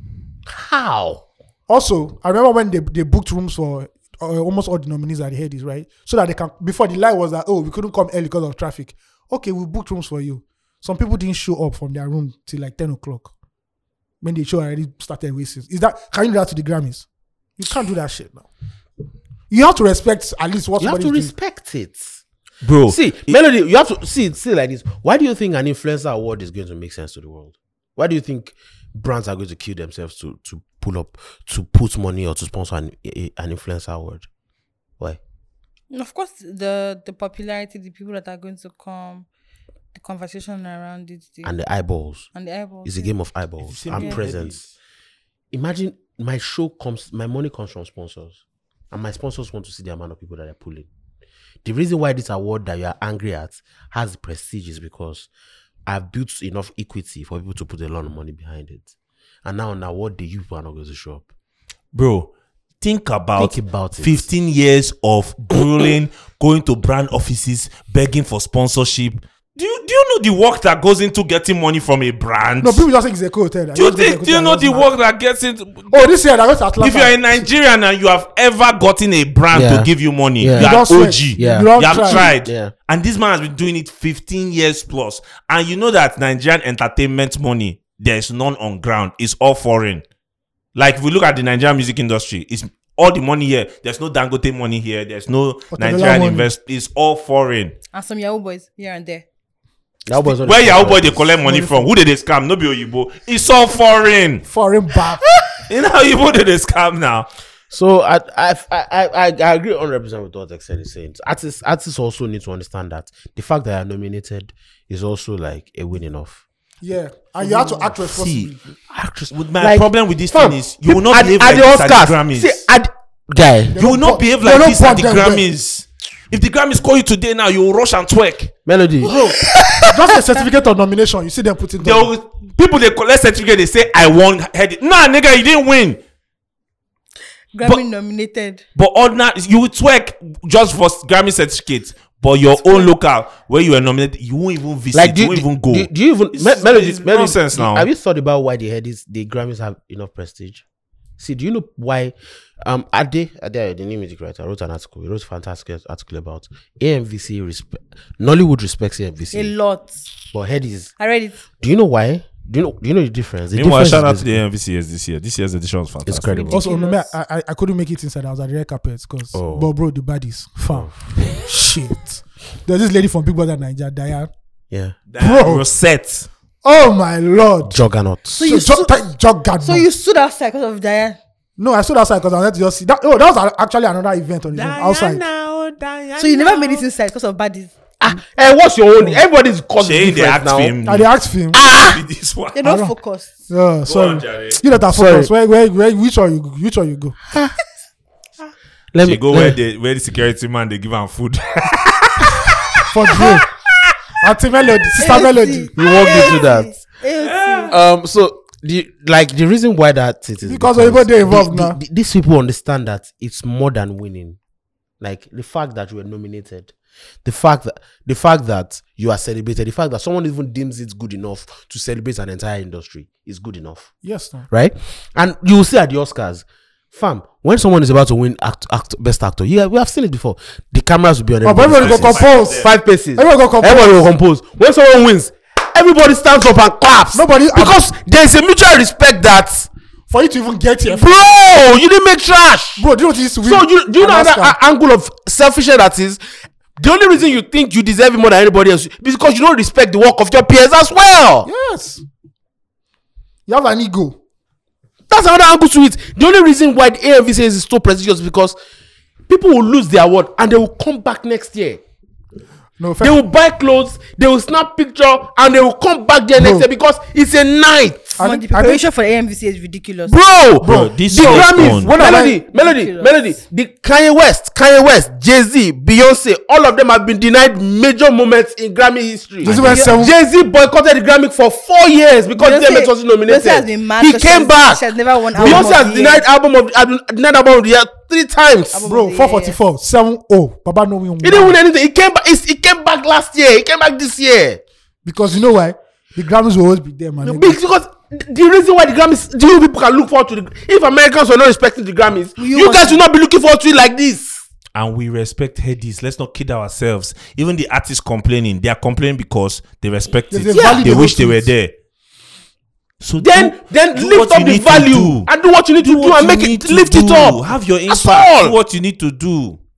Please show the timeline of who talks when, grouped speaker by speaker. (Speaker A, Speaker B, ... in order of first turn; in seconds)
Speaker A: 0.5-1.2, 20.8-22.2, 22.9-34.3, 41.4-42.3, 42.8-44.6, 45.5-50.9, 51.6-55.3, 55.9-58.9, 59.4-61.2, 63.4-64.3, 79.5-82.7, 100.0-101.5, 107.7-116.4, 118.9-123.8, 128.7-129.3, 144.9-150.6, 151.2-159.5, 160.3-160.9, 161.6-164.4, 166.0-166.6, 169.3-169.7, 174.7-175.0, 177.7-178.4, 188.0-190.8, 191.5-192.0, 194.9-195.3, 198.9-199.6, 205.8-206.8, 207.7-214.4, 215.0-216.7, 217.2-223.9, 224.5-239.7, 240.9-242.8, 243.4-246.2, 246.8-251.5, 255.1-258.6, 259.3-261.8, 263.0-268.2, 270.1-284.8, 285.4-288.9, 291.2-294.6, 297.2-304.4, 310.5-311.0, 313.2-318.6
Speaker B: 1.7-13.3, 14.2-17.1, 17.6-18.5, 19.5-21.3, 72.6-74.9, 75.9-77.4, 80.5-82.3, 95.7-96.5, 101.4-101.9, 104.5-105.2, 116.8-118.6, 123.7-125.5, 129.9-132.1, 166.5-174.3, 175.2-175.6, 176.6-177.8, 178.4-179.9, 181.6-185.2, 190.8-191.6, 192.6-192.9, 193.5-197.2, 202.9-203.5, 204.2-205.7, 210.4-211.8, 224.0-224.5, 231.4-234.1, 237.1-237.8, 240.1-241.2, 242.8-244.5, 251.4-252.0, 253.5-254.2, 262.8-263.2, 266.4-266.7, 268.2-268.8, 270.6-272.4, 279.4-280.1, 285.4-285.8, 288.8-291.6, 295.0-297.6, 310.3-311.5
Speaker C: 22.6-23.4, 43.6-44.7, 61.9-62.3, 62.8-72.9, 73.7-75.9, 76.8-90.0, 90.7-97.7, 100.2-104.4, 105.6-107.3, 117.5-118.5, 119.3-122.6, 123.8-128.5, 129.2-130.0, 131.8-136.0, 138.8-147.9, 163.5-166.4, 175.1-176.3, 184.5-186.8, 189.8-191.1, 191.6-192.6, 193.8-194.6, 199.0-203.3, 207.2-207.8, 231.6-232.7, 270.6-271.9, 304.7-311.7, 313.0-319.6
Speaker D: 35.9-39.3, 39.9-41.5, 42.3-43.1, 43.9-44.2, 97.9-99.2, 129.1-129.4, 137.5-138.6, 159.3-160.1, 161.0-161.3, 166.3-167.1, 178.3-179.0, 179.6-181.2, 186.2-187.7, 192.5-193.3, 205.0-207.7, 268.2-270.1, 272.1-273.3, 279.6-280.0, 282.4-286.2, 288.7-289.6, 302.4-303.0